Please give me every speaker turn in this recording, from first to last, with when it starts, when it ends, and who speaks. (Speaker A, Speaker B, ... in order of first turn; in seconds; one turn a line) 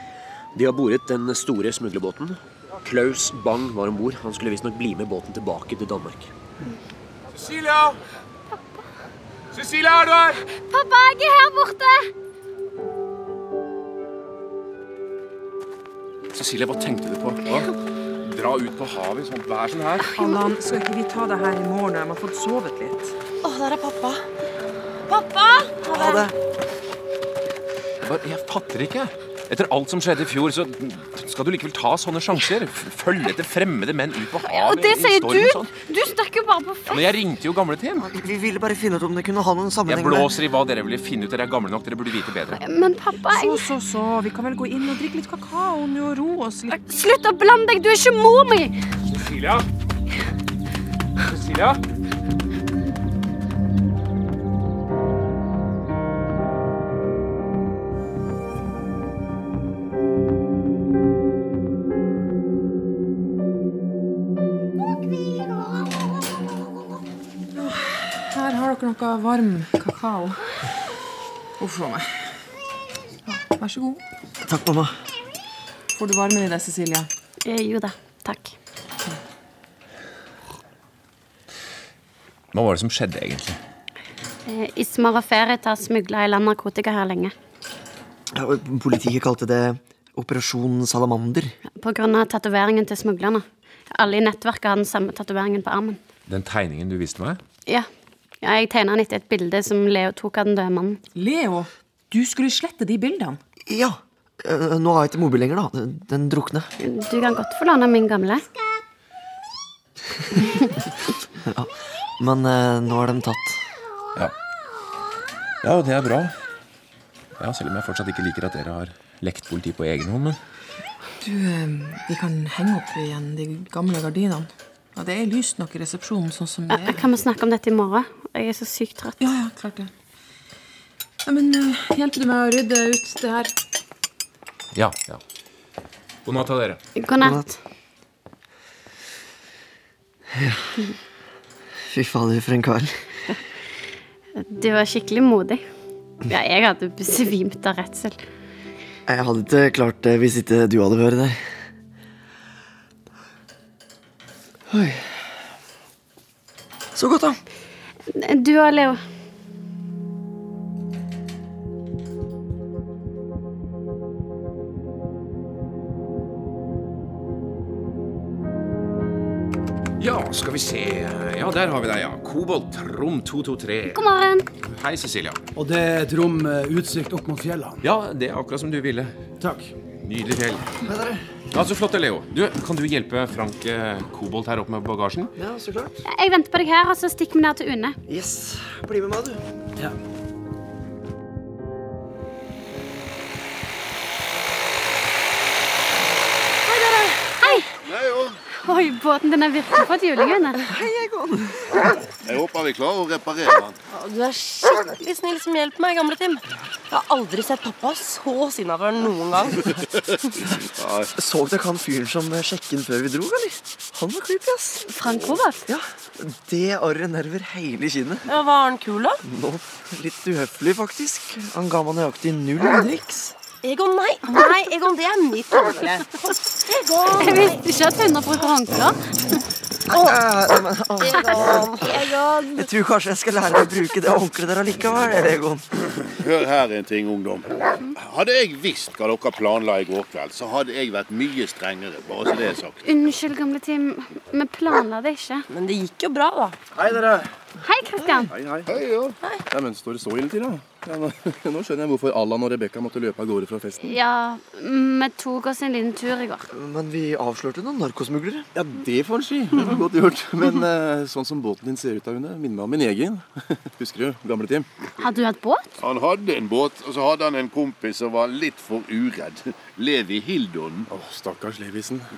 Speaker A: 0.6-6.3
Speaker B: 7.3-8.0
Speaker B: 9.5-10.4
Speaker C: 10.5-12.1
Speaker B: 16.3-17.7
Speaker B: 18.2-20.1
Speaker D: 20.2-23.1
Speaker E: 23.4-24.3
Speaker E: 25.1-26.3
Speaker B: 28.0-35.7
Speaker C: 34.5-37.0
Speaker B: 36.9-38.1
Speaker F: 38.0-40.4
Speaker B: 39.9-42.6
Speaker C: 42.6-43.7
Speaker D: 43.3-46.8
Speaker C: 46.7-48.8
Speaker B: 49.1-49.7
Speaker B: 51.3-51.8
Speaker D: 67.5-70.4
Speaker D: 71.6-72.1
Speaker D: 73.3-74.0
Speaker F: 74.4-75.0
Speaker D: 75.9-77.1
Speaker C: 77.4-78.6
Speaker B: 82.5-83.6
Speaker C: 84.5-87.3
Speaker F: 88.3-91.6
Speaker C: 91.8-96.0
Speaker B: 96.3-97.4
Speaker C: 98.4-101.0
Speaker D: 101.2-103.4
Speaker F: 103.7-106.7
Speaker C: 106.8-108.5
Speaker F: 111.4-113.6
Speaker B: 115.6-116.3
Speaker B: 117.4-120.4
Speaker D: 121.2-127.0
Speaker C: 126.7-129.2
Speaker D: 129.2-129.9
Speaker D: 131.2-133.5
Speaker B: 134.7-135.2
Speaker B: 136.2-136.8
Speaker C: 137.0-137.6
Speaker F: 137.2-137.5
Speaker F: 140.3-140.7
Speaker F: 141.9-142.9
Speaker C: 144.4-145.6
Speaker C: 146.3-148.2
Speaker F: 149.1-151.4
Speaker F: 154.7-155.2
Speaker F: 156.9-157.4
Speaker C: 158.1-159.0
Speaker B: 170.0-174.0
Speaker C: 173.9-174.5
Speaker B: 174.7-175.4
Speaker G: 175.6-177.8
Speaker B: 177.8-179.2
Speaker B: 180.0-180.6
Speaker F: 180.8-181.3
Speaker B: 181.5-185.3
Speaker F: 185.4-186.0
Speaker C: 186.1-188.0
Speaker F: 188.1-189.4
Speaker E: 196.7-197.6
Speaker C: 197.4-197.7
Speaker H: 197.8-198.4
Speaker C: 198.6-200.6
Speaker F: 200.6-201.9
Speaker H: 202.3-203.8
Speaker E: 203.9-209.9
Speaker H: 210.8-211.1
Speaker F: 211.2-214.8
Speaker C: 214.9-215.6
Speaker H: 215.1-215.3
Speaker F: 215.7-218.3
Speaker E: 218.3-219.2
Speaker F: 219.2-223.3
Speaker E: 223.6-227.6
Speaker C: 227.2-229.4
Speaker F: 229.9-235.6
Speaker E: 229.9-230.2
Speaker E: 231.0-232.7
Speaker H: 236.0-242.8
Speaker C: 242.8-245.5
Speaker E: 245.5-246.6
Speaker I: 246.8-247.3
Speaker C: 247.6-248.3
Speaker I: 248.3-248.8
Speaker H: 248.7-249.2
Speaker I: 249.5-253.9
Speaker C: 253.8-256.5
Speaker F: 256.5-258.5
Speaker I: 258.5-264.7
Speaker C: 265.0-265.7
Speaker H: 265.8-270.9
Speaker I: 270.9-272.1